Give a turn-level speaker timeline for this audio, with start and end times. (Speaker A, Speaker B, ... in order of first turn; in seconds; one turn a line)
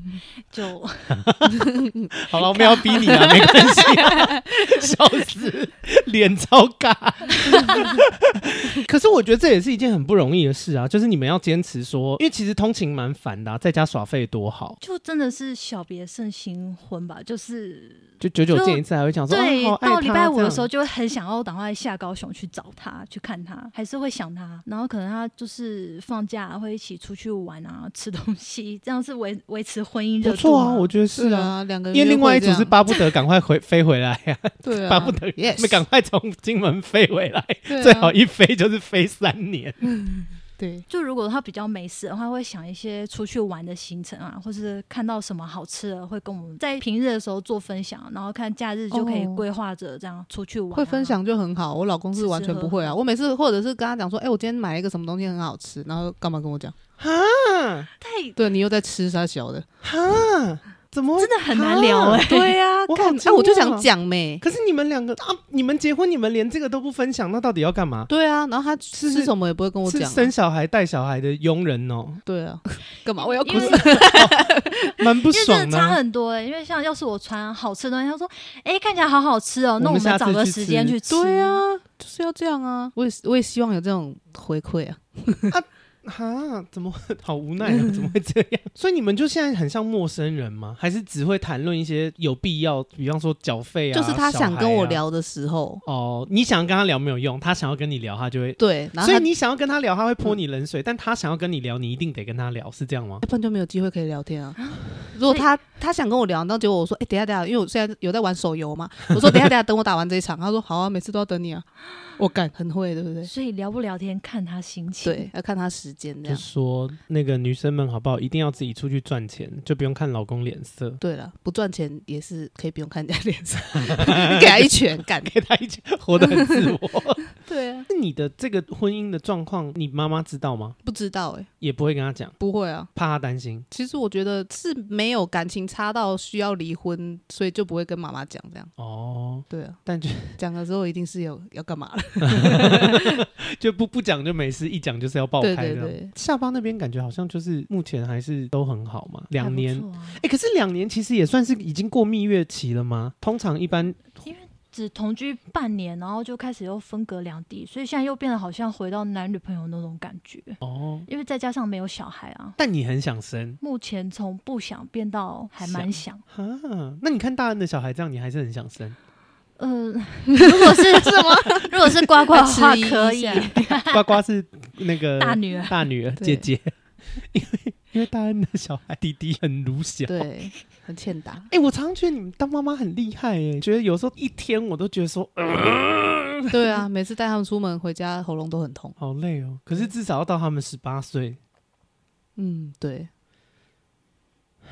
Speaker A: 0.5-1.2
Speaker B: 1.1-14.8
Speaker A: 2.4-3.6
Speaker C: 3.1-4.4
Speaker A: 14.8-30.9
Speaker B: 18.2-20.7
Speaker B: 30.2-39.8
Speaker C: 31.1-32.8
Speaker C: 34.6-35.8
Speaker C: 37.7-38.1
Speaker C: 39.8-40.9
Speaker A: 40.9-51.2
Speaker C: 48.9-49.4
Speaker C: 50.7-56.8
Speaker A: 52.2-53.0
Speaker B: 57.0-57.9
Speaker A: 58.0-58.4
Speaker C: 58.4-59.7
Speaker B: 59.8-62.2
Speaker A: 61.2-62.6
Speaker C: 62.2-64.4
Speaker B: 62.9-63.9
Speaker B: 64.4-68.1
Speaker C: 68.1-70.3
Speaker B: 68.9-69.3
Speaker B: 69.8-72.2
Speaker C: 72.3-74.9
Speaker A: 73.2-74.3
Speaker B: 73.5-76.0
Speaker A: 75.3-81.6
Speaker B: 79.8-81.0
Speaker C: 81.1-85.5
Speaker B: 85.5-95.0
Speaker C: 87.7-88.0
Speaker C: 93.9-95.8
Speaker B: 95.8-103.2
Speaker C: 98.6-99.3
Speaker C: 103.2-113.3
Speaker A: 104.6-105.5
Speaker A: 113.3-115.3
Speaker C: 115.0-116.4
Speaker B: 116.3-121.0
Speaker C: 121.0-125.3
Speaker B: 123.8-127.3
Speaker C: 126.2-126.8
Speaker C: 127.3-127.9
Speaker B: 127.9-130.8
Speaker C: 130.8-131.5
Speaker B: 131.6-132.4
Speaker C: 132.4-132.9
Speaker B: 132.9-133.7
Speaker C: 133.7-138.7
Speaker B: 138.8-140.4
Speaker C: 139.5-139.8
Speaker C: 140.4-143.1
Speaker B: 142.2-154.2
Speaker C: 145.4-146.1
Speaker A: 149.4-150.2
Speaker A: 154.2-162.6
Speaker B: 160.6-161.1
Speaker B: 162.6-163.6
Speaker A: 163.6-166.2
Speaker B: 165.6-169.0
Speaker A: 169.6-174.1
Speaker C: 170.4-173.8
Speaker B: 173.9-180.3
Speaker A: 175.2-175.9
Speaker C: 176.2-176.5
Speaker C: 180.1-181.5
Speaker B: 181.5-186.6
Speaker C: 186.5-189.0
Speaker B: 189.0-191.4
Speaker C: 192.4-193.1